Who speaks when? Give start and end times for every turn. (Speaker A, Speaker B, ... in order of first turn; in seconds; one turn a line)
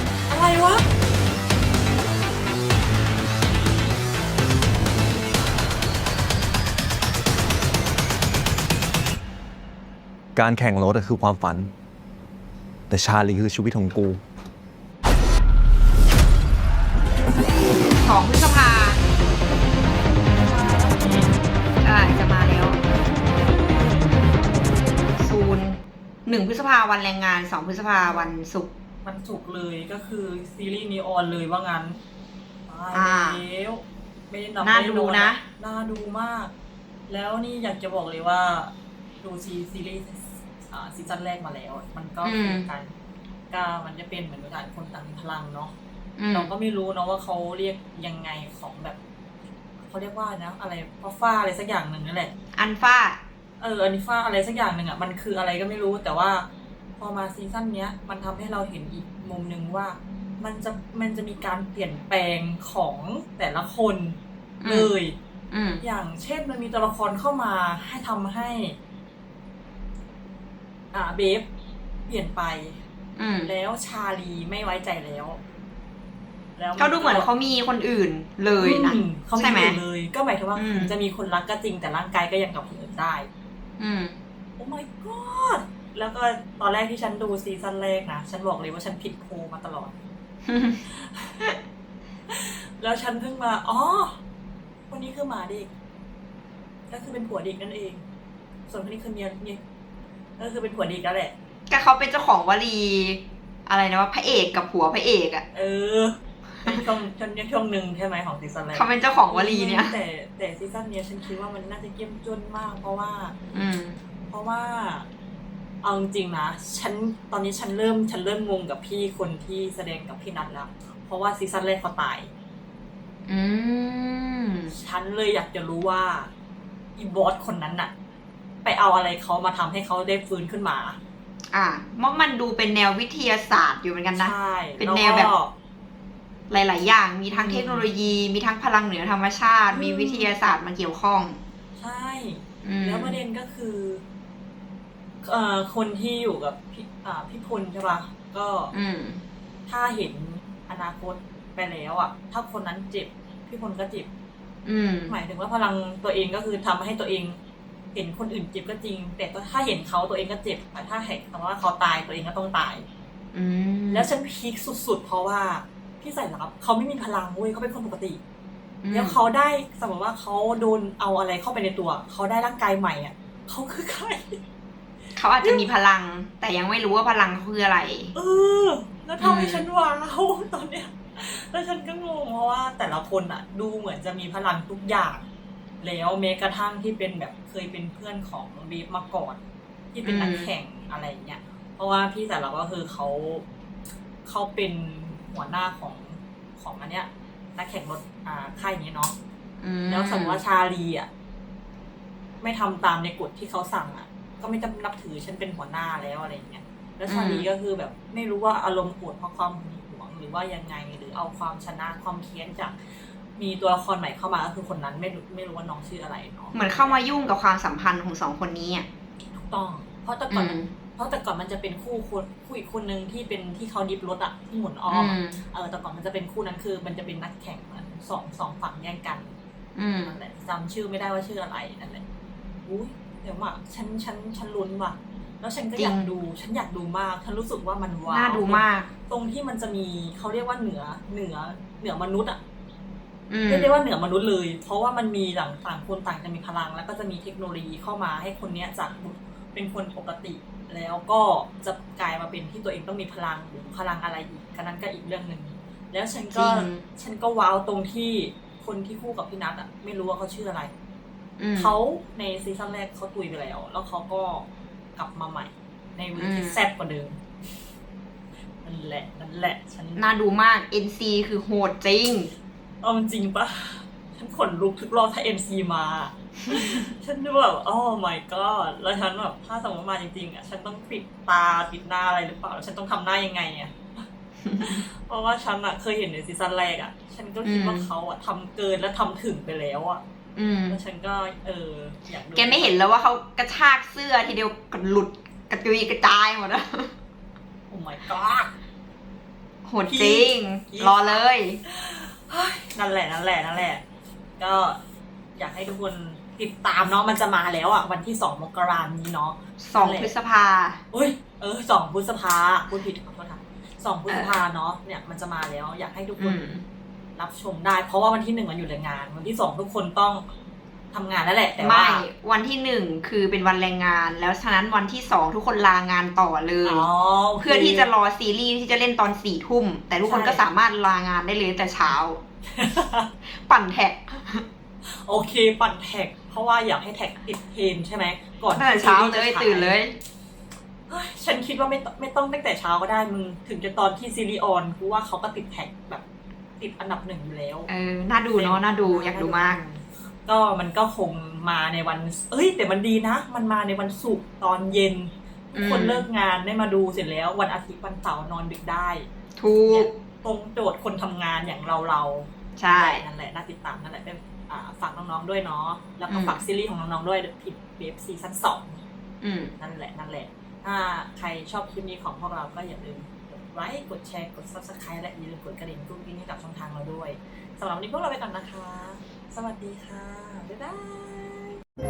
Speaker A: 0.3-0.8
Speaker B: 10.3-11.7
Speaker B: 12.9-14.2
Speaker C: 17.9-19.0
Speaker A: 20.3-21.3
Speaker C: 21.8-22.8
Speaker A: 23.6-23.9
Speaker C: 25.2-28.7
Speaker A: 28.0-28.3
Speaker A: 29.0-32.0
Speaker A: 32.6-36.5
Speaker C: 32.9-33.4
Speaker C: 34.6-35.4
Speaker A: 37.1-42.9
Speaker C: 42.2-42.7
Speaker A: 43.5-45.7
Speaker C: 46.2-46.5
Speaker A: 46.3-49.0
Speaker A: 49.8-52.3
Speaker C: 52.6-53.2
Speaker A: 53.6-56.5
Speaker A: 57.0-65.1
Speaker C: 64.6-64.9
Speaker C: 65.5-65.8
Speaker A: 65.8-68.8
Speaker A: 70.9-71.5
Speaker A: 72.1-72.8
Speaker C: 73.2-73.5
Speaker A: 73.4-75.4
Speaker A: 76.5-77.3
Speaker C: 76.8-79.8
Speaker A: 78.6-83.3
Speaker C: 80.5-81.0
Speaker C: 83.8-84.2
Speaker A: 84.6-90.0
Speaker C: 90.5-90.8
Speaker A: 90.9-91.4
Speaker A: 92.3-94.2
Speaker A: 94.9-95.7
Speaker A: 96.9-98.0
Speaker A: 98.7-99.6
Speaker A: 100.4-101.3
Speaker C: 101.7-105.4
Speaker A: 105.5-113.3
Speaker C: 108.7-110.0
Speaker C: 113.5-114.0
Speaker A: 114.3-115.1
Speaker A: 115.8-122.3
Speaker C: 123.3-124.7
Speaker A: 124.7-126.3
Speaker A: 127.0-127.9
Speaker A: 128.6-131.0
Speaker C: 131.5-135.3
Speaker A: 134.1-135.5
Speaker C: 136.5-141.4
Speaker A: 137.3-137.9
Speaker A: 139.7-140.3
Speaker A: 141.8-144.0
Speaker C: 142.6-143.2
Speaker A: 145.2-148.7
Speaker C: 148.7-149.2
Speaker A: 149.7-154.1
Speaker C: 154.7-155.2
Speaker A: 155.1-157.3
Speaker A: 157.9-162.8
Speaker C: 163.3-164.1
Speaker A: 163.9-168.2
Speaker C: 168.8-169.2
Speaker A: 168.9-174.4
Speaker C: 175.2-178.1
Speaker A: 175.4-175.7
Speaker A: 178.1-185.2
Speaker C: 179.2-179.7
Speaker A: 185.8-189.4
Speaker A: 189.9-193.4
Speaker C: 190.0-190.5
Speaker A: 194.2-199.1
Speaker C: 199.6-200.4
Speaker A: 199.9-201.1
Speaker A: 202.4-212.8
Speaker C: 207.1-207.5
Speaker A: 213.3-217.0
Speaker C: 216.5-218.9
Speaker A: 219.3-229.3
Speaker C: 220.3-220.7
Speaker C: 224.9-225.4
Speaker C: 229.8-230.2
Speaker A: 230.0-232.0
Speaker A: 232.7-242.4
Speaker C: 235.8-236.1
Speaker C: 238.1-238.9
Speaker C: 243.3-243.7
Speaker A: 243.5-260.7
Speaker C: 256.3-256.9
Speaker C: 261.4-261.8
Speaker A: 261.6-267.2
Speaker C: 266.2-266.6
Speaker A: 268.6-270.0
Speaker C: 270.0-272.3
Speaker A: 272.8-283.7
Speaker C: 284.4-284.8
Speaker A: 284.6-290.0
Speaker C: 287.4-287.9
Speaker C: 290.4-290.8
Speaker A: 290.7-292.8
Speaker C: 292.3-296.9
Speaker A: 297.7-298.5
Speaker C: 299.6-301.6
Speaker A: 299.9-303.8
Speaker A: 304.4-304.8
Speaker A: 305.4-310.1
Speaker C: 309.6-310.8
Speaker A: 310.9-316.6
Speaker C: 314.1-314.4
Speaker C: 316.2-316.6
Speaker A: 317.1-320.2
Speaker A: 320.9-322.0
Speaker C: 321.6-326.9
Speaker A: 326.6-327.9
Speaker C: 327.4-332.2
Speaker A: 330.1-330.5
Speaker A: 332.5-333.1
Speaker C: 333.3-334.4
Speaker A: 335.0-339.8
Speaker C: 338.5-339.9
Speaker A: 340.9-346.0
Speaker A: 346.6-347.7
Speaker C: 347.7-349.6
Speaker A: 348.3-368.8
Speaker C: 355.5-356.1
Speaker C: 359.4-359.9
Speaker C: 362.6-363.0
Speaker C: 366.1-366.4
Speaker C: 369.2-369.5
Speaker A: 369.6-381.6